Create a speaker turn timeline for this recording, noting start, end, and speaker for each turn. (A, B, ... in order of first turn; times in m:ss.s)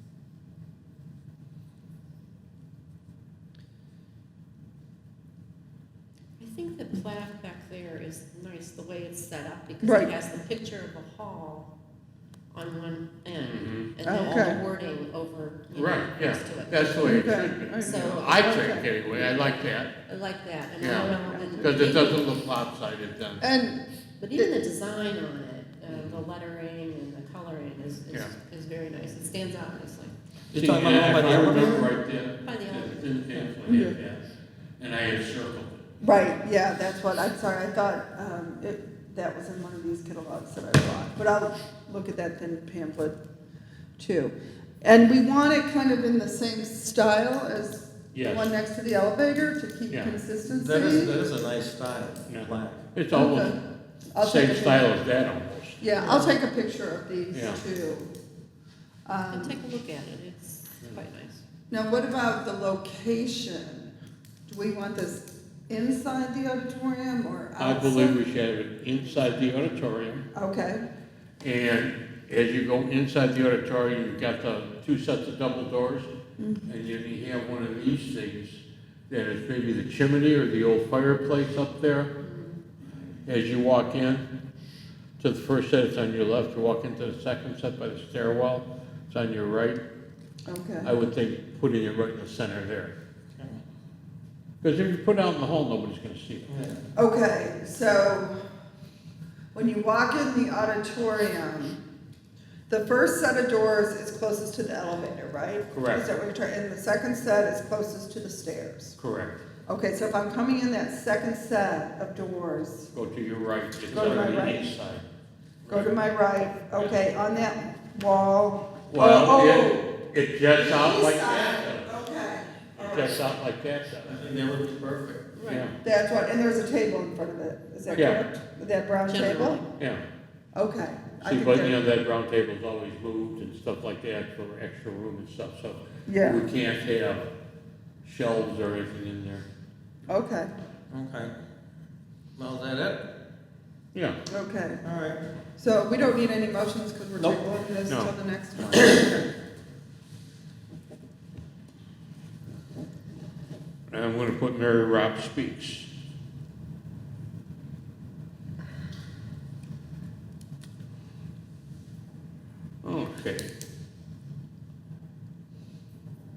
0:06.4-0:11.7 A
0:09.8-0:10.1 B
0:12.5-0:22.4 A
0:13.4-0:13.9 C
0:14.0-0:14.6 B
0:14.2-0:14.6 D
0:15.7-0:19.9 C
0:17.0-0:18.9 B
0:20.8-0:23.4 C
0:21.0-0:22.0 B
0:23.4-0:23.8 B
0:24.2-0:30.1 A
0:25.9-0:26.2 C
0:30.5-0:31.9 D
0:30.5-0:34.2 C
0:32.4-0:33.3 A
0:33.7-0:34.0 B
0:34.8-0:35.8 C
0:36.0-0:43.2 B
0:44.0-0:51.2 B
0:48.1-0:48.5 C
0:49.9-0:50.2 C
0:50.5-0:52.9 D
0:52.3-0:53.6 C
0:53.1-0:53.6 B
0:54.1-0:54.9 B
0:54.2-0:55.8 C
0:55.8-0:58.1 B
0:55.9-0:56.4 A
0:57.3-0:57.6 C
0:59.1-0:59.6 B
0:59.3-1:01.4 A
1:01.7-1:03.9 B
1:04.5-1:08.2 B
1:07.6-1:10.3 C
1:09.0-1:09.3 A
1:10.3-1:10.9 B
1:11.4-1:16.1 C
1:16.4-1:16.7 B
1:16.7-1:22.1 C
1:22.2-1:22.6 A
1:23.3-1:24.3 C
1:25.2-1:29.8 C
1:30.5-1:31.0 B
1:30.8-1:32.9 C
1:34.6-1:36.5 C
1:36.4-1:36.8 D
1:37.0-1:38.4 B
1:39.5-1:41.8 B
1:42.7-1:49.0 B
1:45.7-1:46.0 C
1:49.0-1:49.4 C
1:49.7-1:52.9 B
1:52.9-1:55.0 C
1:53.9-1:54.6 B
1:55.6-1:56.0 C
1:55.7-2:00.0 B
1:58.9-2:01.9 C
2:00.6-2:03.2 B
2:02.8-2:04.2 C
2:04.0-2:05.3 D
2:05.4-2:05.7 A
2:05.5-2:05.8 C
2:05.8-2:09.6 B
2:07.9-2:08.2 C
2:09.1-2:09.7 A
2:09.8-2:10.0 C
2:10.5-2:11.8 B
2:11.2-2:17.3 C
2:16.1-2:16.4 B
2:18.0-2:19.5 C
2:20.1-2:20.5 B
2:20.9-2:21.3 D
2:22.4-2:23.1 D
2:23.9-2:24.2 C
2:24.3-2:24.8 B
2:24.8-2:25.2 D
2:25.6-2:29.2 B
2:33.9-2:35.9 C
2:42.8-2:43.5 C